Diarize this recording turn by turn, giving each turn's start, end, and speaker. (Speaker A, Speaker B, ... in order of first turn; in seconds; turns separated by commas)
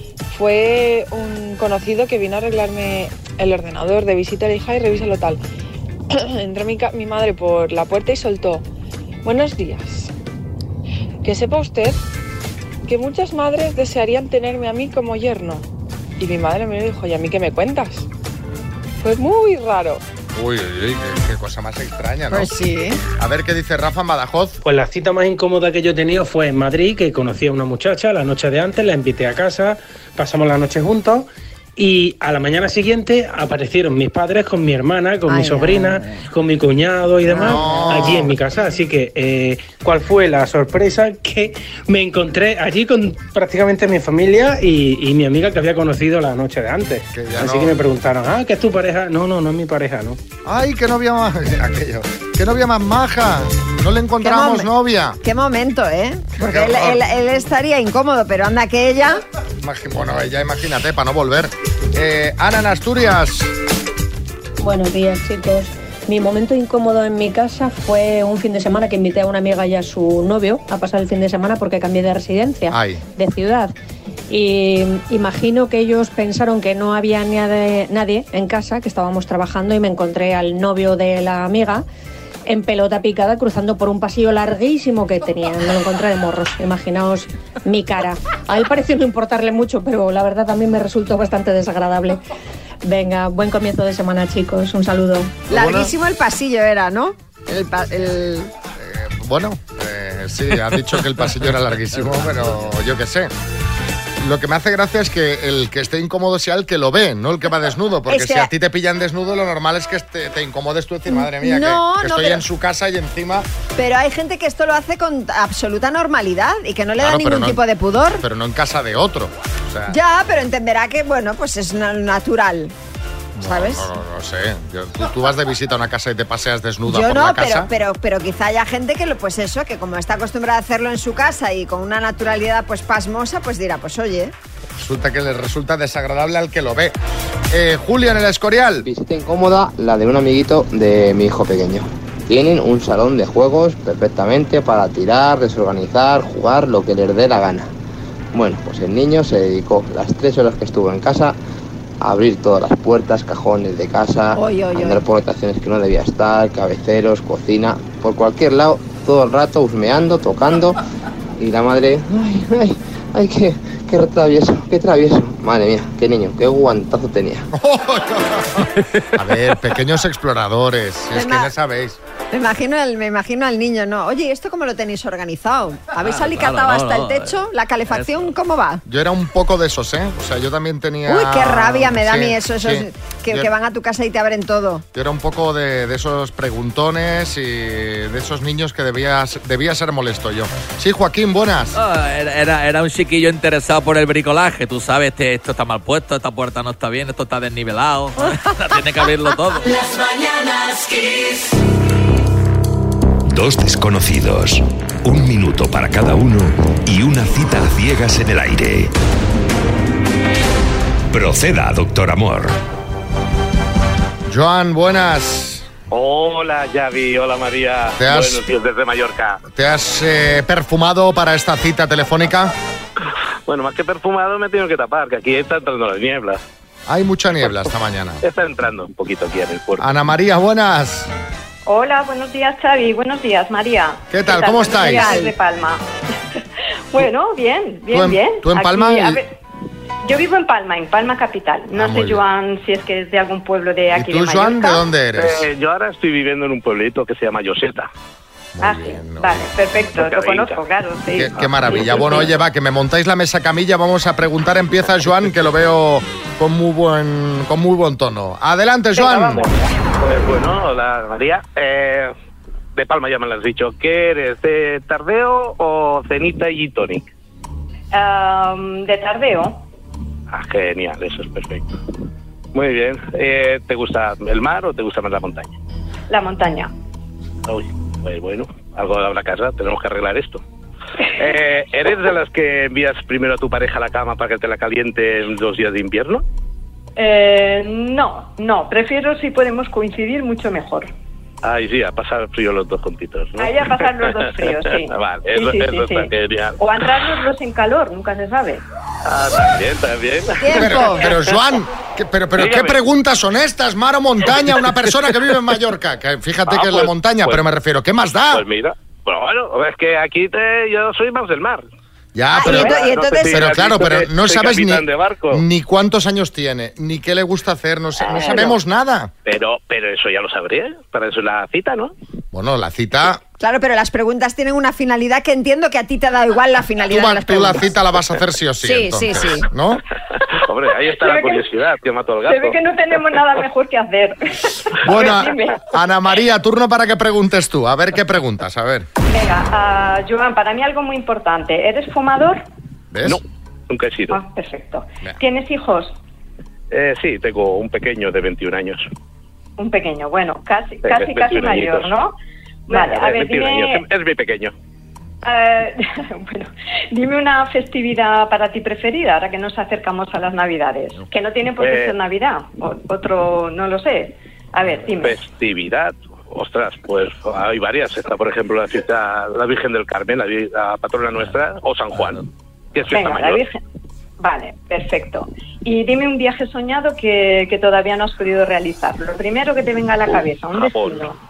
Speaker A: 0.3-5.4, Speaker A: 6.1-8.7, Speaker A: 9.2-10.1, Speaker A: 11.2-12.0, Speaker A: 12.9-15.7, Speaker A: 16.2-18.1, Speaker A: 19.0-20.0, Speaker B: 20.4-22.5, Speaker C: 22.3-23.0, Speaker B: 23.2-24.6, Speaker D: 24.6-50.2, Speaker C: 35.3-35.7, Speaker B: 37.3-38.3, Speaker B: 47.1-47.8, Speaker B: 50.5-55.2, Speaker C: 54.2-54.7, Speaker C: 55.2-59.2, Speaker B: 56.4-57.0, Speaker B: 59.6-63.5, Speaker E: 64.6-73.7, Speaker B: 72.7-73.0, Speaker E: 74.3-81.8, Speaker E: 82.5-92.2, Speaker E: 92.8-95.4, Speaker C: 95.5-98.5, Speaker B: 95.5-95.9, Speaker B: 98.8-103.3, Speaker B: 104.2-113.5, Speaker C: 108.1-108.5, Speaker C: 111.1-112.4, Speaker C: 113.8-118.2, Speaker B: 117.0-117.6, Speaker B: 118.2-120.0, Speaker C: 119.9-122.7, Speaker B: 123.4-127.7, Speaker C: 123.4-123.9, Speaker C: 126.9-134.3, Speaker B: 134.8-136.9, Speaker B: 137.5-138.9, Speaker F: 138.8-147.7, Speaker F: 148.3-151.4, Speaker F: 152.0-160.8, Speaker C: 154.4-155.0, Speaker F: 161.4-167.5, Speaker B: 167.5-172.0, Speaker C: 171.1-171.5, Speaker C: 172.3-178.8, Speaker G: 176.0-177.4, Speaker G: 177.9-178.3, Speaker B: 178.9-183.5, Speaker C: 181.1-184.8, Speaker B: 184.9-191.8, Speaker G: 191.8-199.8, Speaker H: 203.3-208.9, Speaker H: 211.1-212.6, Speaker B: 214.3-215.7, Speaker I: 215.9-219.4, Speaker B: 218.0-218.4, Speaker B: 219.5-222.5, Speaker I: 223.5-226.4, Speaker B: 226.9-228.2, Speaker I: 228.2-229.9, Speaker B: 229.8-231.1, Speaker J: 231.7-235.8, Speaker B: 234.1-235.2, Speaker C: 234.8-235.3, Speaker J: 236.9-239.3, Speaker B: 237.9-239.2, Speaker J: 240.1-244.8, Speaker B: 241.7-242.2, Speaker B: 243.9-245.5, Speaker I: 245.2-247.9, Speaker B: 248.6-249.5, Speaker J: 248.6-252.1, Speaker I: 249.9-250.6, Speaker B: 251.2-259.5, Speaker I: 251.4-252.2, Speaker J: 259.0-259.5, Speaker I: 260.0-262.1, Speaker I: 262.8-267.1, Speaker J: 267.9-269.6, Speaker I: 270.3-271.7, Speaker I: 272.5-275.5, Speaker J: 276.1-276.7, Speaker I: 277.5-280.4, Speaker I: 281.2-286.2, Speaker J: 287.0-290.9, Speaker I: 291.4-294.1, Speaker J: 293.4-298.6, Speaker I: 294.9-296.6, Speaker I: 299.1-301.1, Speaker C: 300.4-301.1, Speaker B: 300.6-308.4, Speaker I: 302.4-302.8, Speaker I: 306.5-307.4, Speaker I: 308.3-311.6, Speaker B: 312.1-319.1, Speaker C: 312.3-313.5, Speaker I: 312.4-315.4, Speaker I: 318.0-318.4, Speaker C: 318.1-318.6, Speaker I: 319.3-321.9, Speaker B: 322.3-323.2, Speaker C: 323.4-327.7, Speaker B: 326.9-329.8, Speaker C: 328.6-329.5, Speaker I: 330.3-332.6, Speaker J: 331.0-331.5, Speaker J: 332.3-335.6, Speaker B: 334.8-338.9, Speaker J: 339.1-342.4, Speaker B: 342.9-343.2, Speaker I: 343.1-344.2, Speaker J: 344.1-345.9, Speaker I: 346.7-348.9, Speaker J: 349.6-352.1, Speaker I: 350.9-351.9, Speaker J: 352.7-353.8, Speaker I: 352.7-354.5, Speaker J: 355.2-365.2, Speaker I: 361.6-361.9, Speaker I: 365.0-373.4, Speaker J: 372.9-373.6, Speaker J: 374.2-381.1, Speaker I: 380.1-381.1